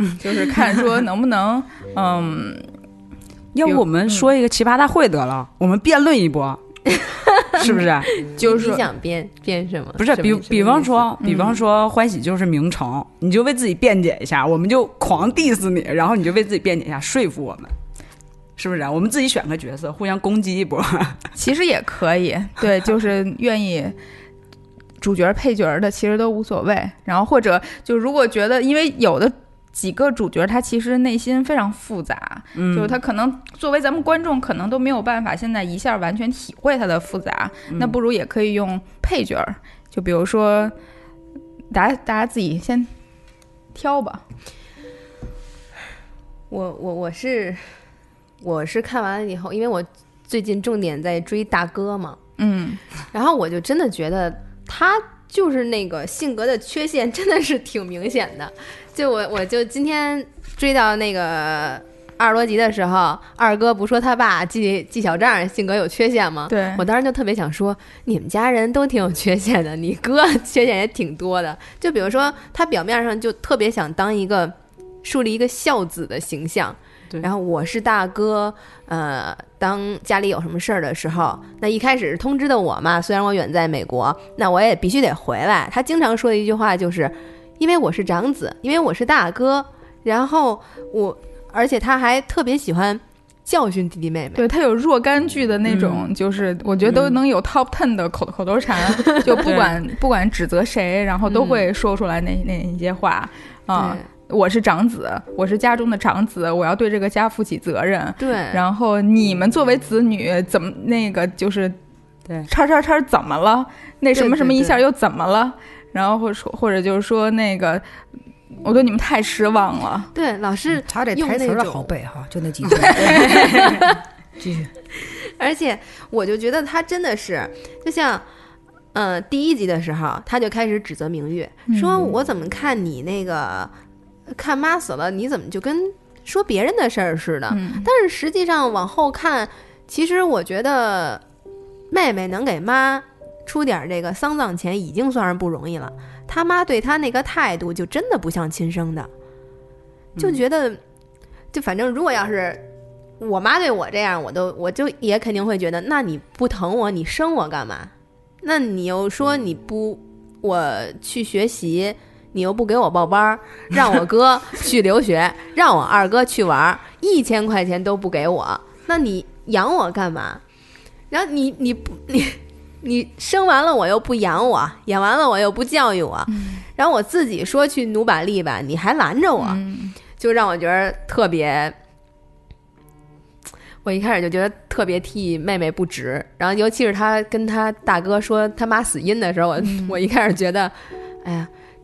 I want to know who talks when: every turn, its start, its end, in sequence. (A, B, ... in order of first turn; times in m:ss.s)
0:00.2-0:02.7 A
0:03.5-0:06.6 B
0:03.6-0:04.3 A
0:07.0-0:07.6 C
0:07.5-0:08.1 B
0:08.2-0:11.5 C
0:08.4-0:08.8 A
0:10.0-0:17.7 B
0:18.6-0:21.2 B
0:21.4-0:24.0 A
0:25.0-0:40.8 A
0:32.6-0:33.0 B
0:37.7-0:38.0 B
0:41.7-0:42.9 A
0:43.7-0:44.2 A
0:46.5-0:47.8 C
0:48.4-0:52.2 C
0:52.4-0:52.8 A
0:53.1-1:34.4 C
1:06.5-1:06.8 A
1:34.4-1:51.8 A
1:35.7-1:36.1 B
1:39.0-1:39.4 C
1:39.4-1:39.8 B
1:41.3-1:41.7 C
1:43.8-1:44.1 C
1:48.2-1:48.6 C
1:52.5-1:57.8 A
1:54.1-1:54.8 C
1:58.6-2:00.1 A
2:00.1-2:01.9 C
2:00.8-2:03.8 D
2:02.9-2:04.0 C
2:04.4-2:04.7 D
2:05.0-2:08.2 C
2:08.9-2:13.7 C
2:11.7-2:12.1 A
2:14.3-2:21.2 C
2:17.5-2:17.9 A
2:21.9-2:29.1 C
2:30.2-2:30.8 C
2:31.5-2:32.6 C
2:33.2-2:50.4 C
2:51.1-2:59.6 C
2:56.3-2:56.6 A
2:59.4-3:00.0 A
3:00.2-3:01.8 C
3:03.8-3:11.5 C
3:09.6-3:10.0 A